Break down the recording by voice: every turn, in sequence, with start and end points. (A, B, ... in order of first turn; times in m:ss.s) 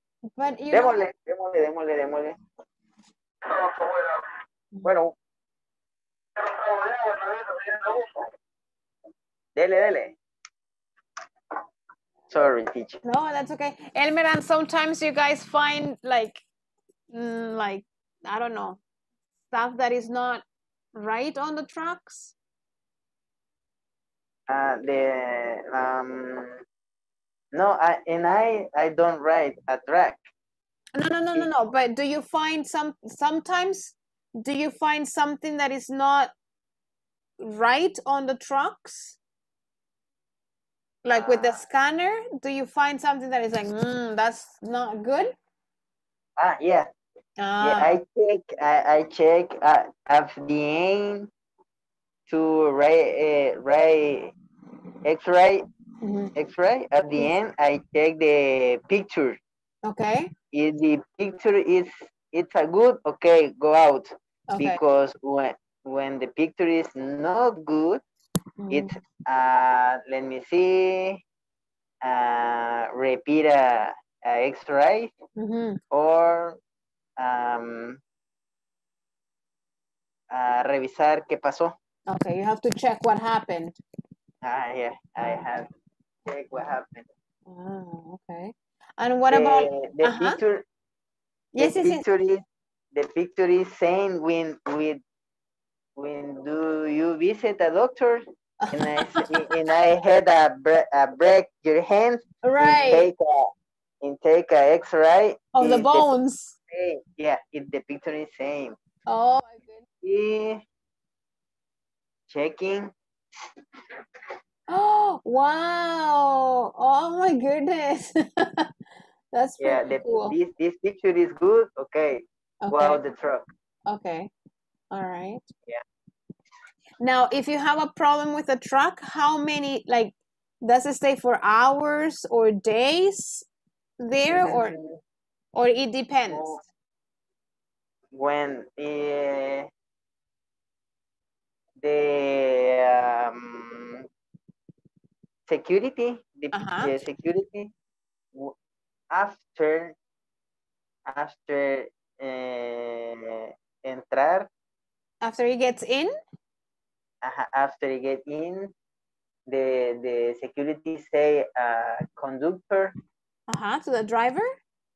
0:00.4-0:01.0 A
0:00.7-0:02.4 B
0:03.5-0:04.3 B
0:04.8-0:05.1 B
0:06.4-0:08.2 B
0:09.6-0:10.2 B
0:12.3-0:13.0 B
0:13.0-0:16.4 A
0:17.1-0:18.8 A
0:19.5-0:20.4 A
0:20.9-0:22.3 A
0:24.5-0:26.6 B
0:27.5-0:30.2 B
0:30.9-0:36.3 A
0:37.4-0:39.2 A
0:41.0-0:45.3 A
0:41.1-0:41.6 B
0:46.4-0:46.9 B
0:47.4-0:47.9 A
0:47.6-0:51.3 B
0:52.3-0:54.3 B
0:55.0-0:55.6 B
0:56.0-0:56.3 A
0:56.3-0:59.4 B
0:59.8-1:00.3 A
1:00.5-1:08.0 B
1:04.5-1:04.8 A
1:08.6-1:08.9 A
1:08.7-1:11.2 B
1:12.0-1:15.1 B
1:15.4-1:15.8 A
1:15.9-1:16.6 B
1:17.2-1:18.0 B
1:20.3-1:21.7 B
1:22.1-1:23.8 A
1:24.4-1:25.7 B
1:26.2-1:27.1 B
1:27.4-1:30.4 A
1:29.3-1:30.6 B
1:31.6-1:32.0 A
1:31.6-1:35.0 B
1:36.0-1:43.5 B
1:38.6-1:39.3 A
1:42.4-1:43.1 A
1:44.0-1:46.1 B
1:45.6-1:46.5 A
1:46.7-1:48.8 B
1:49.1-1:49.8 A
1:50.0-1:50.6 B
1:52.3-1:52.9 B
1:54.7-1:58.7 A
1:59.3-2:00.3 A
1:59.6-2:03.5 B
2:02.6-2:03.0 A
2:03.9-2:04.3 A
2:04.9-2:05.4 A
2:07.0-2:13.5 A
2:14.0-2:14.7 A
2:14.3-2:15.0 B
2:15.5-2:16.6 A
2:16.3-2:16.6 B
2:18.1-2:19.7 B
2:21.8-2:24.0 B
2:25.5-2:27.7 B
2:26.5-2:26.9 A
2:29.1-2:29.9 B
2:31.1-2:34.5 B
2:35.2-2:36.1 A
2:37.2-2:38.7 B
2:39.5-2:42.9 B
2:43.5-2:44.6 A